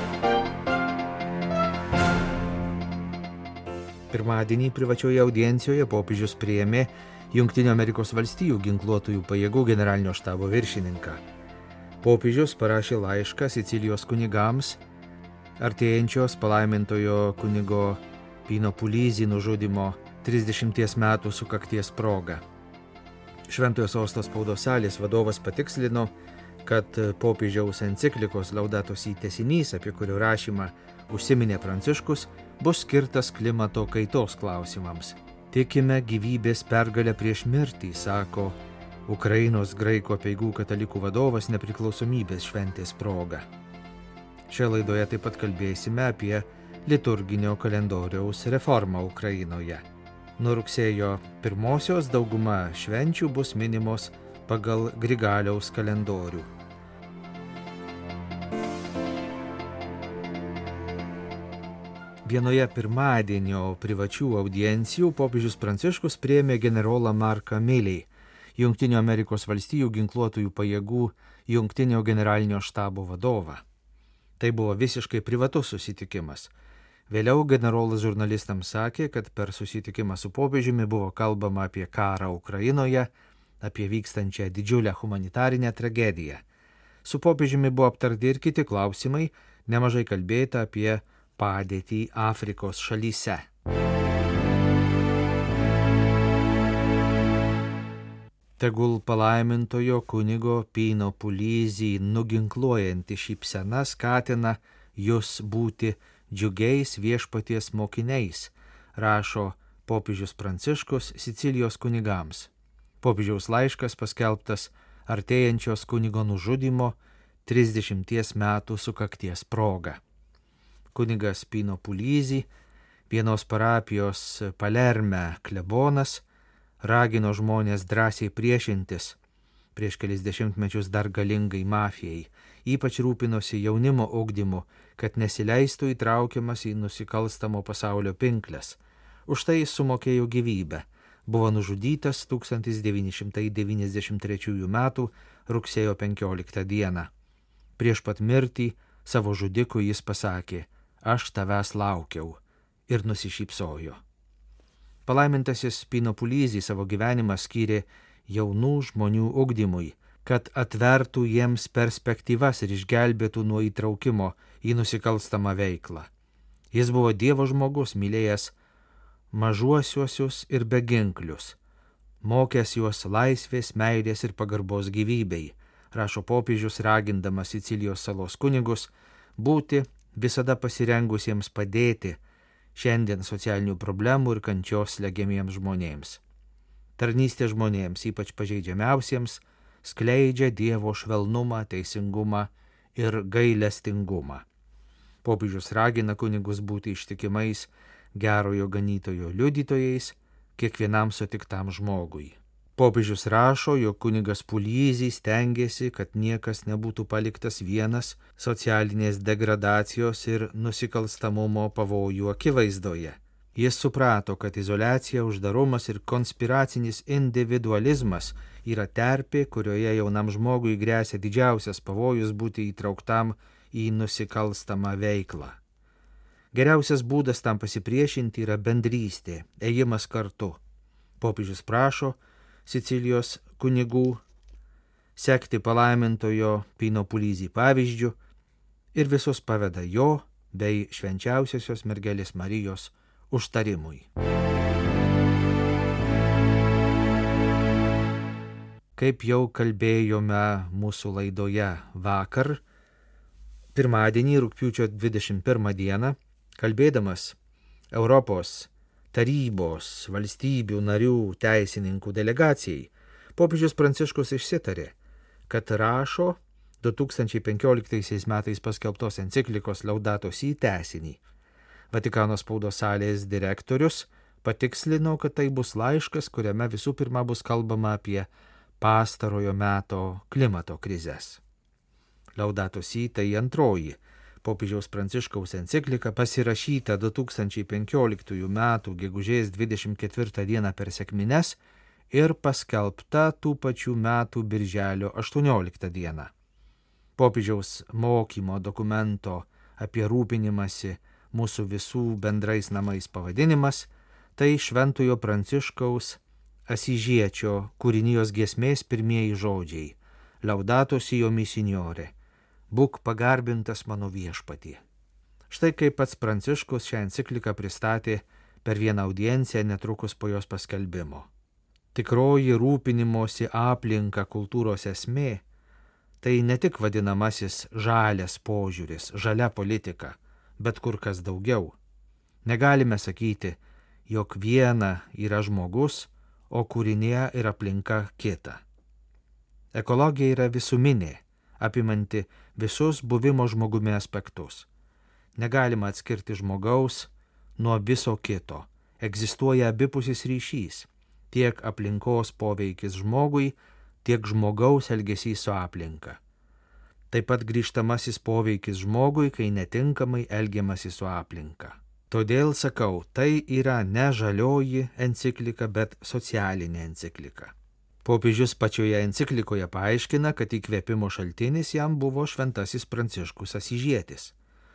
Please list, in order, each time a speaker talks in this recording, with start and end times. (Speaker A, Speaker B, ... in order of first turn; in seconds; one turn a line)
Speaker A: 4.1-11.2
Speaker A: 12.0-14.8
Speaker A: 15.6-22.4
Speaker A: 23.5-26.1
Speaker A: 26.6-43.4
Speaker A: 44.5-49.8
Speaker A: 50.4-56.5
Speaker A: 62.2-73.6
Speaker A: 74.4-76.5
Speaker A: 77.1-83.1
Speaker A: 83.6-86.4
Speaker A: 87.0-93.4
Speaker A: 98.6-112.5
Speaker A: 113.0-120.0
Speaker A: 120.9-122.5
Speaker A: 123.1-126.2
Speaker A: 126.8-129.2
Speaker A: 129.8-147.1
Speaker A: 147.8-154.0
Speaker A: 155.1-166.1
Speaker A: 166.7-168.5
Speaker A: 169.3-171.6
Speaker A: 172.2-182.2
Speaker A: 182.7-186.2
Speaker A: 187.0-194.4
Speaker A: 195.2-225.6
Speaker A: 226.5-230.6
Speaker A: 231.2-234.2
Speaker A: 235.2-238.2
Speaker A: 238.9-244.1
Speaker A: 248.9-252.6
Speaker A: 253.7-257.4
Speaker A: 257.9-264.9
Speaker A: 265.5-271.2
Speaker A: 271.9-278.3
Speaker A: 278.8-281.4
Speaker A: 282.4-291.6
Speaker A: 292.1-296.3
Speaker A: 297.2-312.1
Speaker A: 312.7-314.8
Speaker A: 315.5-321.3
Speaker A: 321.9-325.4
Speaker A: 326.2-331.8
Speaker A: 332.4-338.6
Speaker A: 339.7-344.7
Speaker A: 345.4-356.2
Speaker A: 357.1-367.5
Speaker A: 368.0-374.3